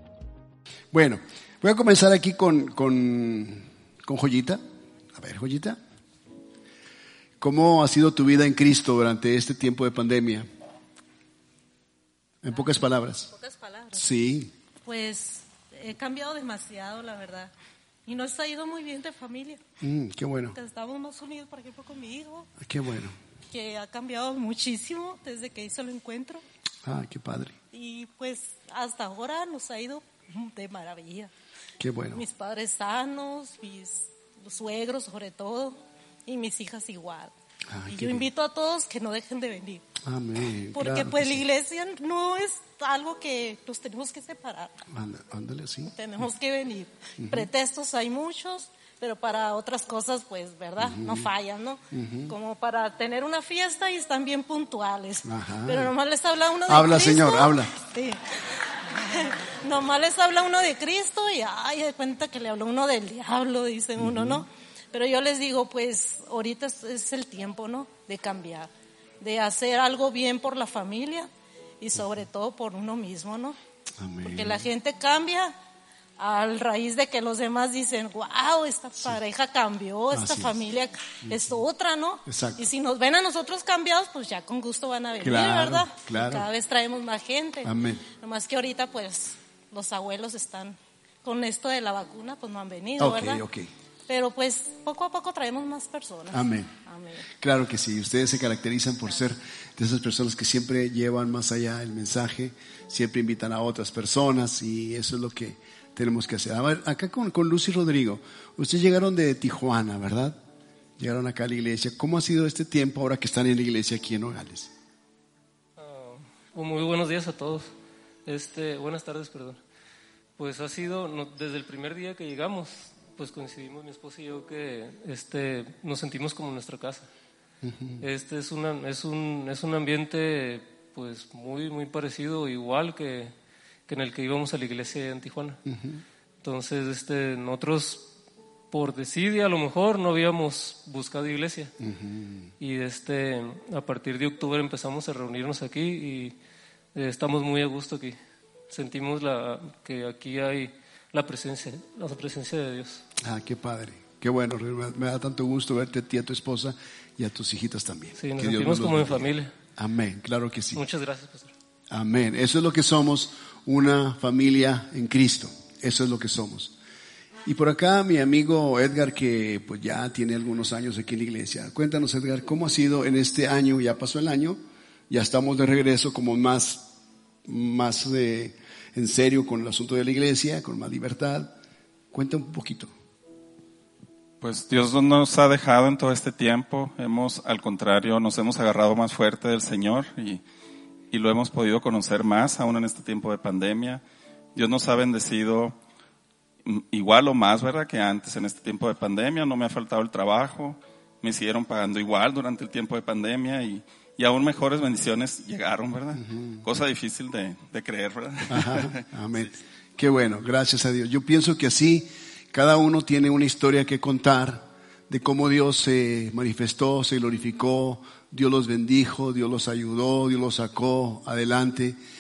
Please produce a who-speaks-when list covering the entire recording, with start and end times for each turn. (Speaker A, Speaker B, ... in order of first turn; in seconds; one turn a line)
Speaker A: 0.9-4.6
Speaker A: 5.2-5.8
Speaker A: 7.4-10.5
Speaker A: 12.4-13.3
Speaker B: 13.3-14.0
Speaker A: 13.9-14.5
Speaker B: 14.8-17.5
Speaker B: 18.1-19.6
Speaker A: 19.8-20.6
Speaker B: 20.5-22.5
Speaker A: 22.6-23.1
Speaker B: 23.5-26.4
Speaker A: 26.8-27.5
Speaker B: 27.7-31.3
Speaker A: 31.8-32.2
Speaker B: 32.1-37.3
Speaker A: 37.7-38.2
Speaker B: 37.9-39.9
Speaker A: 40.0-41.4
Speaker B: 40.7-44.8
Speaker A: 44.9-45.9
Speaker B: 45.8-58.2
Speaker A: 47.2-47.5
Speaker A: 50.8-51.3
Speaker A: 51.9-52.3
Speaker A: 55.2-55.9
Speaker A: 56.7-57.7
Speaker B: 59.0-71.3
Speaker A: 64.0-64.4
Speaker B: 71.8-73.6
Speaker A: 74.0-74.6
Speaker B: 74.2-75.5
Speaker B: 76.2-93.4
Speaker A: 80.1-80.5
Speaker A: 82.3-82.6
Speaker A: 85.2-86.5
Speaker A: 87.6-88.0
Speaker A: 93.0-93.7
Speaker B: 94.1-97.3
Speaker A: 96.3-96.7
Speaker A: 97.4-110.3
Speaker A: 111.0-114.7
Speaker C: 115.8-117.7
Speaker C: 118.2-119.6
Speaker C: 120.4-127.1
Speaker A: 127.6-128.0
Speaker C: 128.0-133.3
Speaker C: 133.9-135.6
Speaker A: 135.7-136.0
Speaker C: 136.4-138.1
Speaker C: 138.7-141.7
Speaker A: 141.8-142.5
Speaker C: 142.6-146.3
Speaker C: 146.9-148.2
Speaker C: 148.7-153.0
Speaker A: 153.2-160.8
Speaker C: 158.2-159.5
Speaker C: 160.7-161.5
Speaker A: 161.9-166.7
Speaker A: 167.4-176.9
Speaker A: 177.4-181.5
Speaker A: 182.1-182.9
Speaker D: 184.4-190.4
Speaker D: 191.1-194.0
Speaker D: 194.5-195.8
Speaker D: 196.6-209.0
Speaker A: 206.2-206.6
Speaker A: 208.5-222.0